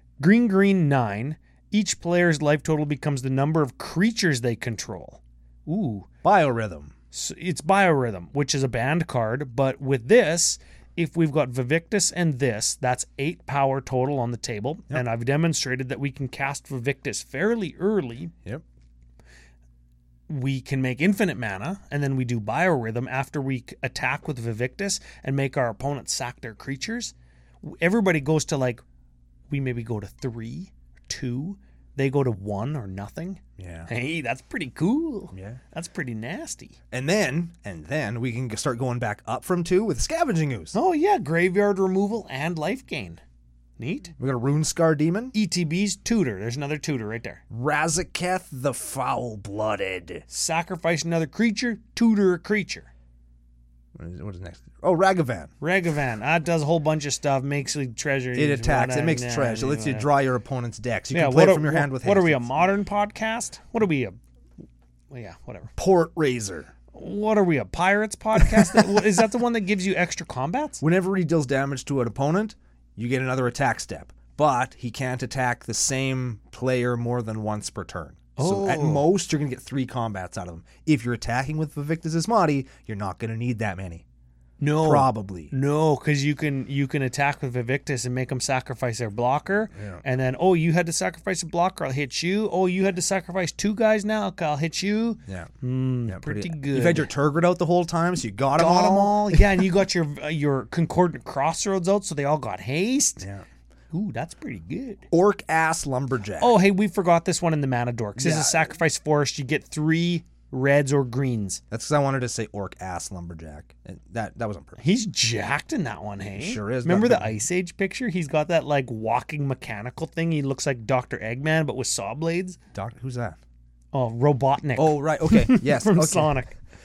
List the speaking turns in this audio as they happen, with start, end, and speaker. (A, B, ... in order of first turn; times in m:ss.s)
0:00.2-0:06.1 A
0:06.2-0:06.9 B
0:07.1-0:18.3 A
0:20.3-0:28.8 A
0:29.5-0:36.8 A
0:33.6-0:33.9 B
0:35.3-0:35.6 B
0:36.9-0:40.7 B
0:40.7-0:43.2 A
0:43.8-0:44.1 A
0:44.2-0:45.3 B
0:45.3-0:47.4 A
0:47.5-0:50.2 B
0:50.3-0:52.9 A
0:54.0-0:55.5 B
0:55.6-1:00.1 A
0:58.3-1:02.5 B
1:01.1-1:04.2 A
1:05.1-1:05.7 A
1:05.8-1:06.7 B
1:06.9-1:10.8 A
1:08.6-1:08.9 B
1:10.8-1:24.0 B
1:18.4-1:19.1 A
1:24.6-1:37.1 A
1:24.8-1:25.5 B
1:29.7-1:30.0 B
1:36.1-1:39.6 B
1:38.6-1:43.2 A
1:43.2-1:43.4 B
1:43.9-1:45.0 A
1:45.1-1:46.6 B
1:46.4-1:51.6 A
1:48.2-1:48.7 B
1:51.7-1:54.8 B
1:54.8-2:02.6 A
1:56.4-1:57.4 B
2:02.7-2:03.4 B
2:03.9-2:06.6 A
2:04.8-2:06.4 B